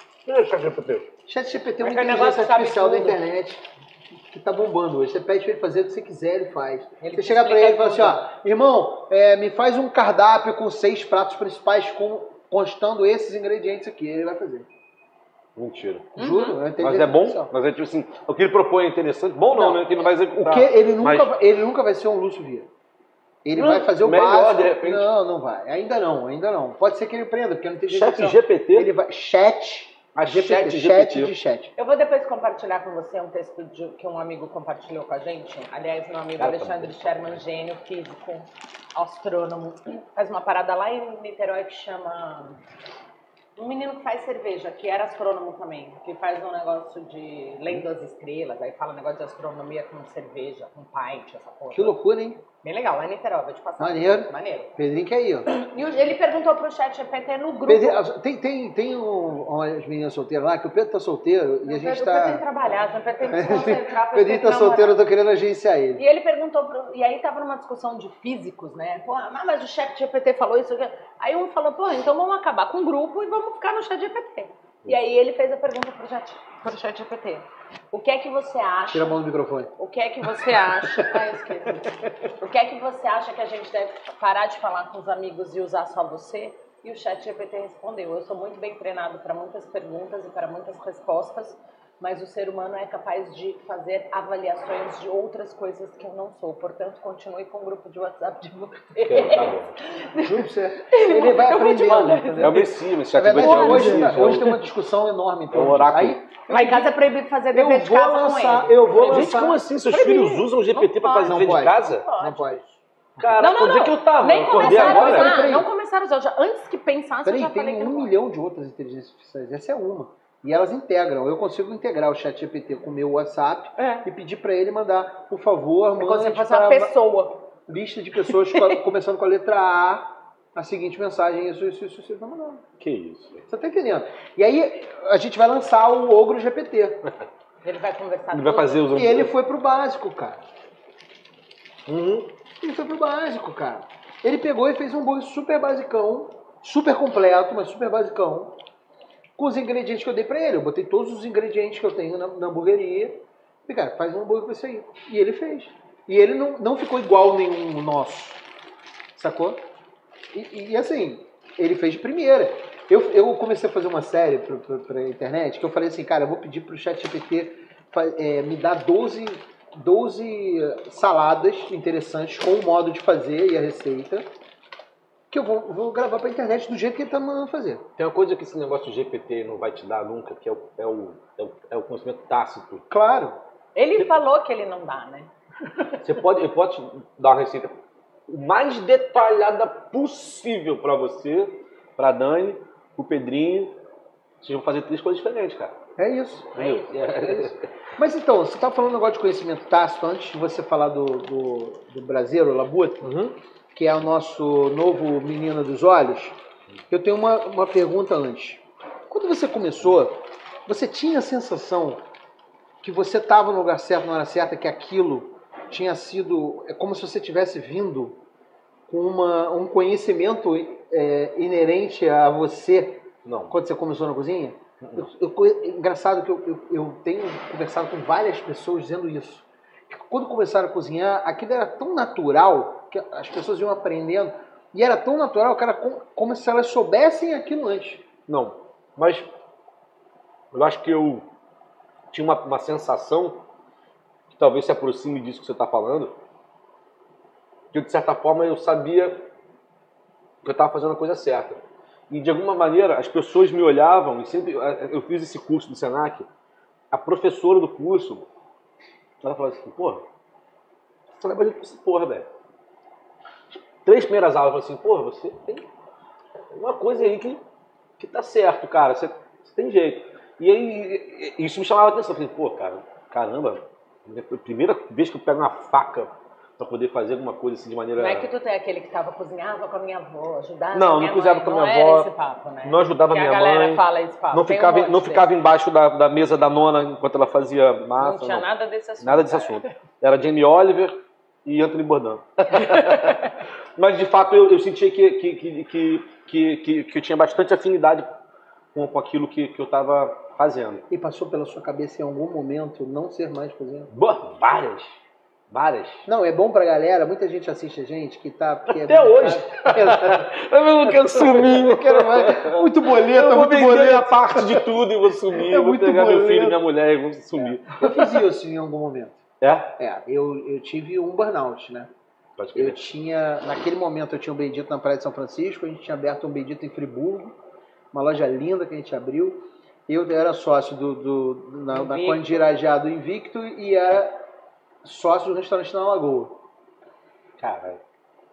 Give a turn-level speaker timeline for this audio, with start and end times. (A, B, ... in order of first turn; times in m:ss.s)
0:00.2-0:01.0 A
0:01.2-0:03.6 B
0:01.8-0:03.2 C
0:04.3-0:14.7 B
0:07.0-0:08.2 C
0:15.6-0:21.3 A
0:16.2-0:16.6 C
0:16.2-0:17.5 B
0:19.5-0:19.8 B
0:20.4-0:22.7 B
0:23.4-0:31.7 B
0:23.5-0:25.1 A
0:27.9-0:28.9 A
0:30.1-0:31.3 A
0:31.8-0:42.6 C
0:36.4-0:37.4 A
0:43.6-0:52.0 C
0:51.7-0:52.4 B
0:52.6-0:54.7 C
0:53.8-0:55.5 B
0:55.5-0:58.0 C
0:57.7-1:02.4 B
1:01.6-1:05.0 C
1:03.3-1:06.0 B
1:06.0-1:19.1 C
1:18.9-1:19.7 B
1:19.8-1:42.7 C
1:20.4-1:21.8 B
1:39.0-1:39.7 A
1:40.2-1:46.9 B
1:42.4-1:44.6 A
1:43.3-1:44.6 C
1:45.5-1:46.2 A
1:46.5-1:52.6 C
1:47.5-1:49.6 B
1:49.0-1:52.1 A
1:51.2-1:52.8 B
1:53.2-1:55.4 A
1:53.4-1:58.2 C
1:54.6-1:55.7 B
1:57.2-2:06.9 B
2:03.8-2:04.1 C
2:06.0-2:07.4 C
2:07.7-2:12.6 B
2:08.3-2:08.8 C
2:12.8-2:13.4 A
2:13.5-2:17.0 B
2:17.6-2:18.8 C
2:18.3-2:19.3 A
2:18.9-2:20.4 B
2:21.8-2:22.3 A
2:22.6-2:28.5 B
2:29.4-2:38.4 B
2:39.2-2:39.6 B
2:40.3-2:54.2 B
2:55.3-2:57.8 B
2:58.0-3:02.8 A
3:02.9-3:03.4 B
3:03.8-3:05.3 C
3:06.0-3:07.7 A
3:08.3-3:13.7 A
3:14.4-3:15.7 A
3:16.0-3:23.1 B
3:16.5-3:17.7 A
3:23.0-3:23.3 A
3:23.7-3:26.4 B
3:26.9-3:32.0 B
3:32.8-3:38.2 B
3:38.9-3:58.0 B
3:43.2-3:43.5 A
3:44.8-3:45.1 A
3:58.3-3:59.3 A
4:00.5-4:01.2 A
4:02.1-4:03.4 A
4:04.3-4:06.1 A
4:07.7-4:09.2 A
4:10.4-4:16.3 A
4:16.9-4:18.2 A
4:19.2-4:20.0 A
4:21.2-4:22.3 A
4:23.5-4:25.6 A
4:26.5-4:27.4 A
4:28.0-4:38.3 A
4:38.0-4:45.3 C
4:40.7-4:42.1 A
4:42.6-4:48.5 A
4:48.0-4:49.7 C
4:49.0-4:58.1 A
4:52.5-4:53.3 C
4:58.7-5:00.8 A
5:00.9-5:03.9 B
5:03.9-5:04.9 A
5:05.5-5:06.0 A
5:06.0-5:10.3 B
5:08.7-5:18.2 A
5:10.8-5:14.7 B
5:15.3-5:16.6 B
5:17.4-5:19.2 B
5:19.4-5:19.7 A
5:19.8-5:21.9 B
5:22.4-5:22.8 A
5:22.5-5:27.3 B
5:27.9-5:34.2 B
5:31.7-5:32.5 C
5:34.8-5:36.4 B
5:37.4-5:37.8 A